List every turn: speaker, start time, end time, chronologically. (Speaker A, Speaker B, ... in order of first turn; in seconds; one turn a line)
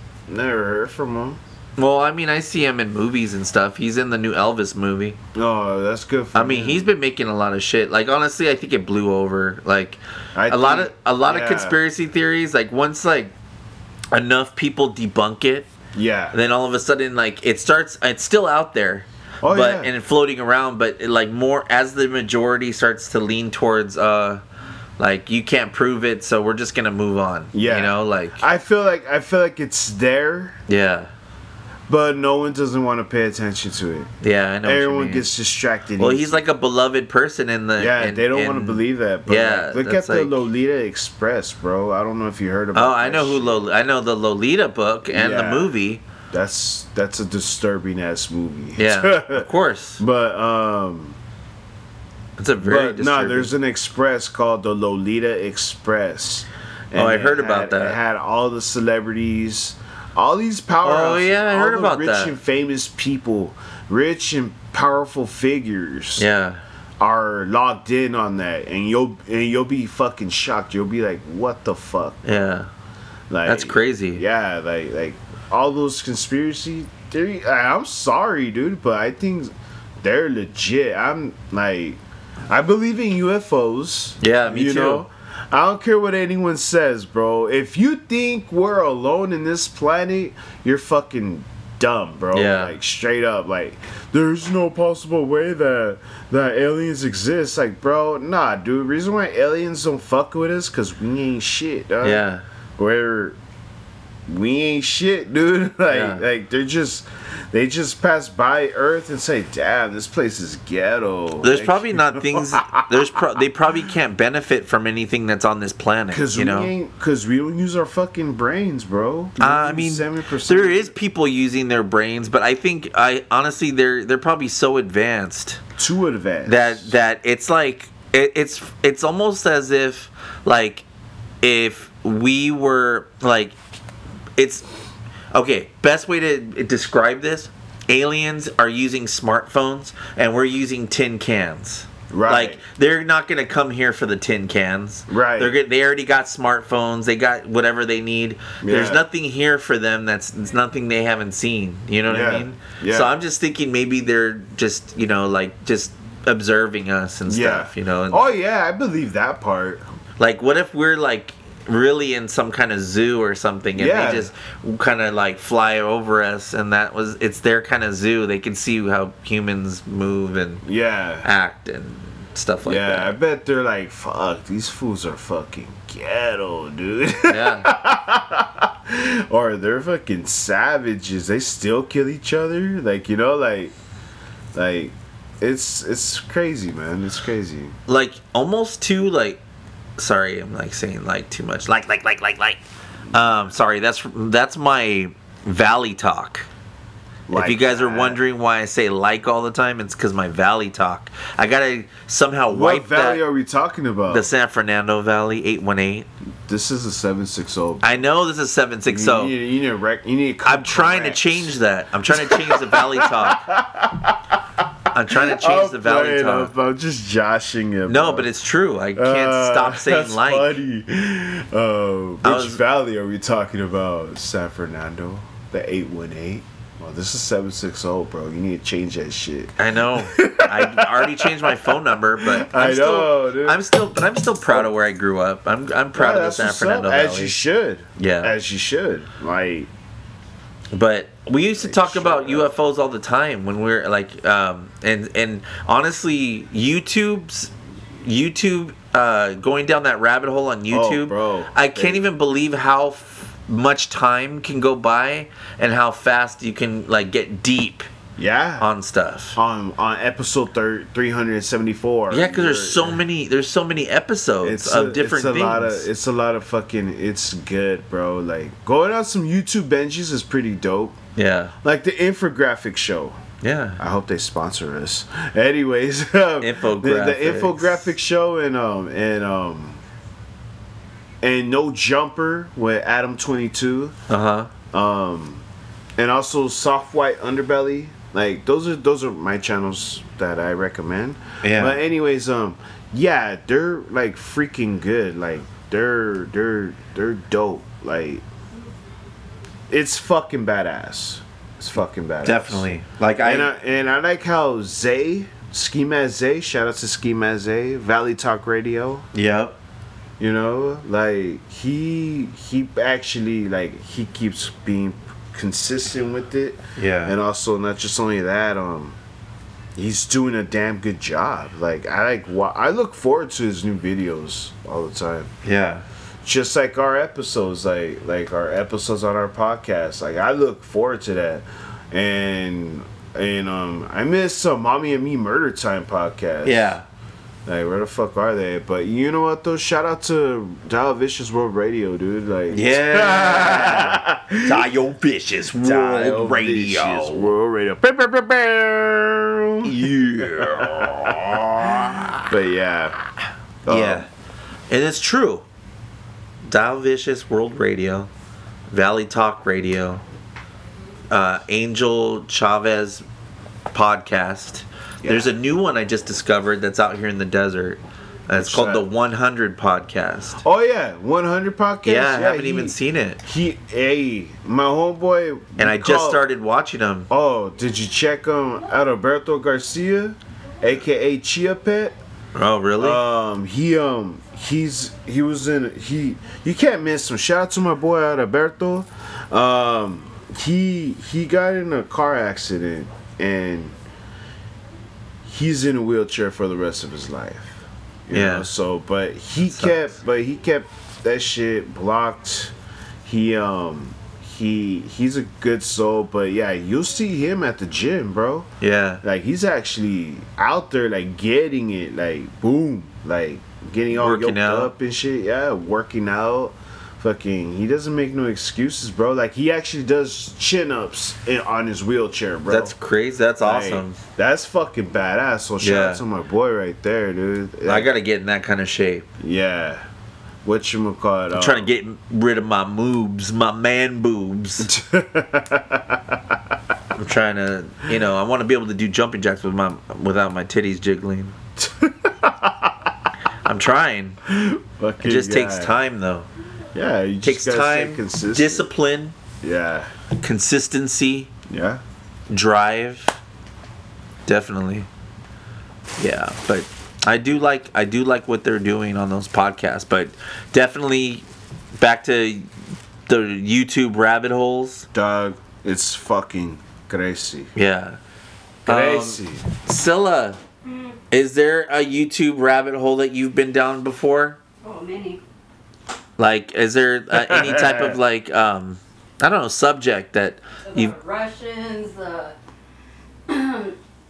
Speaker A: 0.3-1.4
Speaker B: 1.8-5.2
Speaker A: 5.3-6.9
Speaker B: 6.3-13.3
Speaker A: 10.3-11.8
Speaker B: 14.1-15.7
Speaker A: 15.9-16.4
Speaker B: 16.3-24.4
Speaker A: 19.4-19.9
Speaker B: 25.0-28.4
Speaker A: 27.5-30.6
Speaker B: 30.7-31.1
Speaker A: 31.9-34.1
Speaker B: 34.2-35.3
Speaker A: 34.6-36.4
Speaker B: 36.0-40.4
Speaker A: 37.8-43.6
Speaker B: 42.8-46.0
Speaker A: 45.1-45.7
Speaker A: 46.3-51.2
Speaker B: 48.8-50.0
Speaker B: 52.4-53.5
Speaker A: 52.6-66.3
Speaker B: 57.0-58.0
Speaker B: 60.8-62.4
Speaker B: 66.2-66.6
Speaker A: 67.0-72.3
Speaker B: 72.2-72.7
Speaker A: 73.3-102.2
Speaker B: 73.5-74.2
Speaker B: 84.2-85.0
Speaker B: 92.3-92.8
Speaker B: 102.0-102.4
Speaker A: 102.8-103.4
Speaker A: 104.3-113.1
Speaker B: 105.9-106.2
Speaker B: 111.4-116.7
Speaker A: 116.1-120.9
Speaker B: 119.4-125.6
Speaker A: 125.8-127.0
Speaker B: 126.5-130.8
Speaker B: 131.4-133.6
Speaker B: 134.4-134.7
Speaker B: 135.3-158.3
Speaker A: 142.1-142.6
Speaker A: 145.1-145.6
Speaker A: 148.6-149.0
Speaker A: 152.1-153.1
Speaker A: 157.3-159.8
Speaker B: 160.2-170.6
Speaker A: 163.8-164.3
Speaker A: 170.7-171.3
Speaker B: 171.2-173.1
Speaker A: 172.7-183.7
Speaker B: 177.3-177.7
Speaker A: 184.5-187.8
Speaker B: 187.9-189.4
Speaker B: 190.0-192.6
Speaker B: 193.1-196.5
Speaker A: 197.3-198.2
Speaker B: 197.3-203.2
Speaker A: 202.5-204.3
Speaker B: 204.1-206.1
Speaker A: 206.5-208.0
Speaker B: 207.8-209.3
Speaker A: 208.9-211.6
Speaker B: 210.4-213.5
Speaker A: 212.1-218.3
Speaker B: 214.9-216.5
Speaker B: 217.9-220.6
Speaker A: 218.9-233.8
Speaker B: 222.2-222.6
Speaker B: 229.6-237.4
Speaker A: 235.9-239.7
Speaker B: 238.0-238.3
Speaker B: 240.7-257.9
Speaker A: 241.6-242.5
Speaker A: 250.7-252.1
Speaker A: 258.2-258.7
Speaker B: 258.6-259.4
Speaker A: 259.4-263.0
Speaker B: 262.1-265.9
Speaker A: 264.4-271.0
Speaker B: 271.2-271.5
Speaker A: 271.6-273.2
Speaker B: 273.4-273.8
Speaker A: 273.8-279.8
Speaker B: 276.4-277.9
Speaker A: 281.2-283.9
Speaker B: 284.1-284.5
Speaker A: 284.7-285.4
Speaker A: 286.0-298.2
Speaker B: 291.4-291.8
Speaker A: 299.7-309.1
Speaker B: 302.2-303.5
Speaker B: 309.1-309.6
Speaker A: 310.2-319.0
Speaker B: 316.8-317.1
Speaker A: 319.8-325.3
Speaker B: 325.4-325.9
Speaker A: 326.2-336.8
Speaker B: 336.4-336.9
Speaker A: 337.5-344.6
Speaker B: 342.5-347.3
Speaker A: 345.6-353.0
Speaker B: 349.6-352.3
Speaker A: 353.7-354.1
Speaker B: 353.7-354.1
Speaker B: 354.7-355.5
Speaker B: 356.4-358.1
Speaker B: 358.7-360.0
Speaker B: 361.1-363.1
Speaker B: 363.7-370.4
Speaker A: 365.0-365.4
Speaker A: 368.3-368.9
Speaker A: 370.4-376.2
Speaker B: 371.9-373.2
Speaker B: 375.6-377.1
Speaker A: 377.1-382.0
Speaker B: 382.4-383.0
Speaker A: 382.8-393.8
Speaker A: 395.2-402.5
Speaker B: 398.1-398.5
Speaker B: 399.5-399.8
Speaker A: 403.1-408.5
Speaker B: 408.6-409.0
Speaker A: 409.0-422.7
Speaker B: 413.9-414.7
Speaker B: 422.5-424.0
Speaker A: 423.4-427.9
Speaker B: 425.6-426.0
Speaker B: 427.6-429.1
Speaker A: 429.2-429.9
Speaker A: 430.4-431.7
Speaker B: 431.4-434.7
Speaker A: 434.6-436.6
Speaker B: 436.9-441.4
Speaker A: 441.6-442.9
Speaker B: 443.4-444.2
Speaker A: 444.3-445.8
Speaker B: 445.0-446.3
Speaker A: 446.7-448.7
Speaker B: 447.2-449.1
Speaker A: 449.4-449.9
Speaker B: 450.2-451.3
Speaker A: 451.5-451.8
Speaker B: 452.3-453.2
Speaker B: 454.3-454.9
Speaker B: 456.0-461.2
Speaker B: 461.8-462.5
Speaker B: 463.1-464.9
Speaker A: 464.9-467.5
Speaker B: 467.6-468.0
Speaker A: 468.6-469.4
Speaker B: 468.7-470.4
Speaker C: 470.7-471.0
Speaker B: 471.1-474.4
Speaker C: 474.6-475.2
Speaker B: 476.2-480.9
Speaker A: 477.1-478.0
Speaker C: 480.6-482.4
Speaker C: 483.3-483.8